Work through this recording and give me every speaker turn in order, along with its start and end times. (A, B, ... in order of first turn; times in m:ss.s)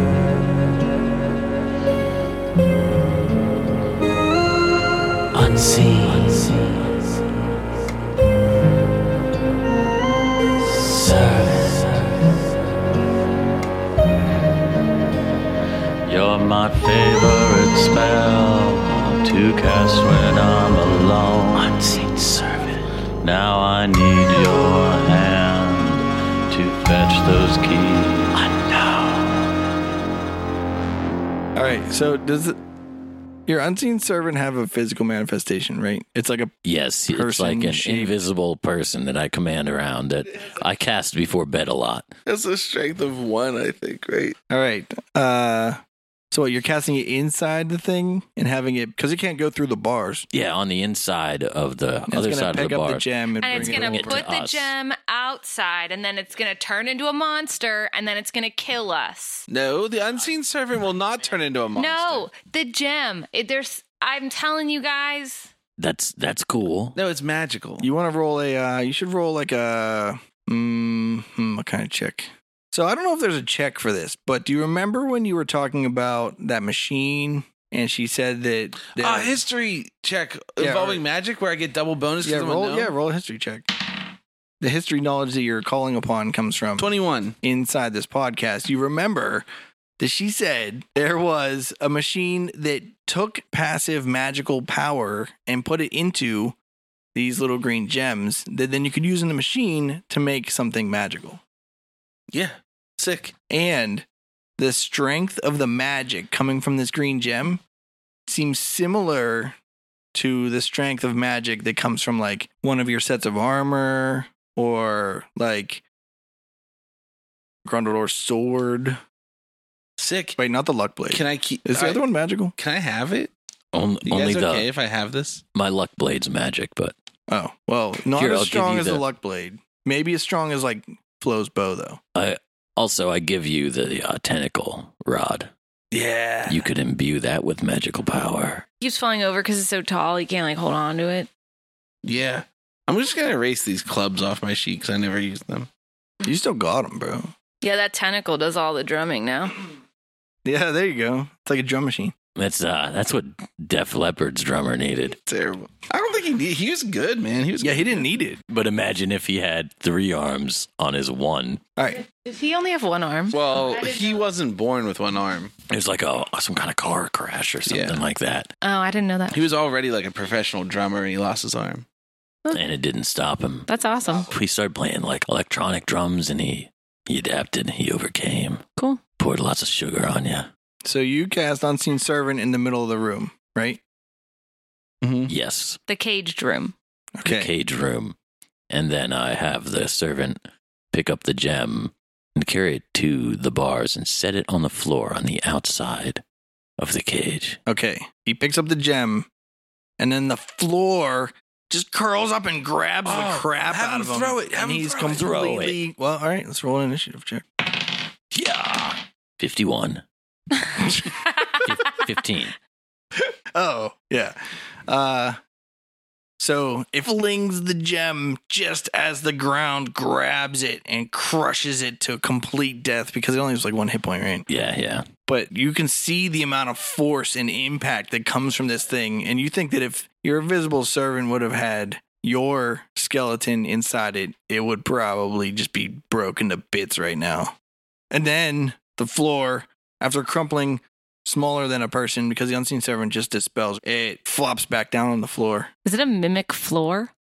0:05.3-0:06.9 A
0:10.6-0:12.2 A
0:16.0-0:29.4 A
0:31.5-0:32.6 B
0:33.5-0:36.5 B
0:36.6-0:42.1 A
0:37.1-0:38.2 B
0:42.2-0:44.4 C
0:44.5-0:45.8 B
0:46.3-0:50.3 B
0:50.3-0:54.7 A
0:52.1-0:54.2 B
0:53.4-0:59.4 D
0:59.5-1:02.3 C
1:01.8-1:05.5 D
1:05.8-1:07.0 A
1:06.9-1:07.9 C
1:07.8-1:19.4 B
1:18.9-1:22.9 C
1:20.6-1:21.0 B
1:22.2-1:23.7 B
1:24.6-1:26.9 B
1:26.8-1:27.4 C
1:27.4-1:29.4 B
1:30.0-1:36.6 B
1:37.1-1:41.4 B
1:42.3-1:43.3 C
1:43.5-1:44.0 B
1:44.6-1:47.6 B
1:48.3-1:49.6 B
1:50.1-1:55.8 B
1:57.6-1:59.0 B
2:00.0-2:00.4 C
2:00.4-2:02.5 B
2:01.1-2:02.0 C
2:02.6-2:03.3 C
2:03.7-2:04.7 A
2:04.0-2:05.4 C
2:05.5-2:06.9 A
2:07.3-2:12.0 B
2:08.2-2:09.0 A
2:12.1-2:15.5 A
2:15.9-2:16.6 C
2:16.5-2:18.6 A
2:18.8-2:21.3 D
2:22.0-2:25.7 C
2:26.2-2:27.3 B
2:27.6-2:29.6 D
2:30.4-2:32.1 B
2:32.4-2:35.2 A
2:35.2-2:38.1 C
2:37.6-2:38.4 B
2:38.5-2:41.6 A
2:41.8-2:42.0 B
2:42.1-2:43.4 D
2:43.3-2:45.5 C
2:45.7-2:48.5 A
2:47.6-2:48.0 C
2:48.6-2:49.4 D
2:49.3-2:51.8 C
2:52.5-2:53.7 A
2:53.7-2:54.3 D
2:54.3-2:58.6 A
2:59.2-3:00.5 A
3:00.8-3:03.8 B
3:05.0-3:05.3 C
3:05.3-3:05.8 A
3:05.9-3:06.7 D
3:07.2-3:07.5 B
3:07.2-3:08.2 A
3:08.7-3:10.4 A
3:10.9-3:16.2 A
3:16.8-3:17.6 A
3:17.7-3:19.3 B
3:20.0-3:27.4 B
3:23.0-3:25.3 C
3:25.1-3:25.8 A
3:28.3-3:30.0 A
3:31.6-3:32.5 A
3:33.2-3:35.4 B
3:36.4-3:44.5 B
3:44.5-3:45.0 A
3:45.3-3:57.5 B
3:58.1-4:05.7 B
4:05.8-4:07.1 D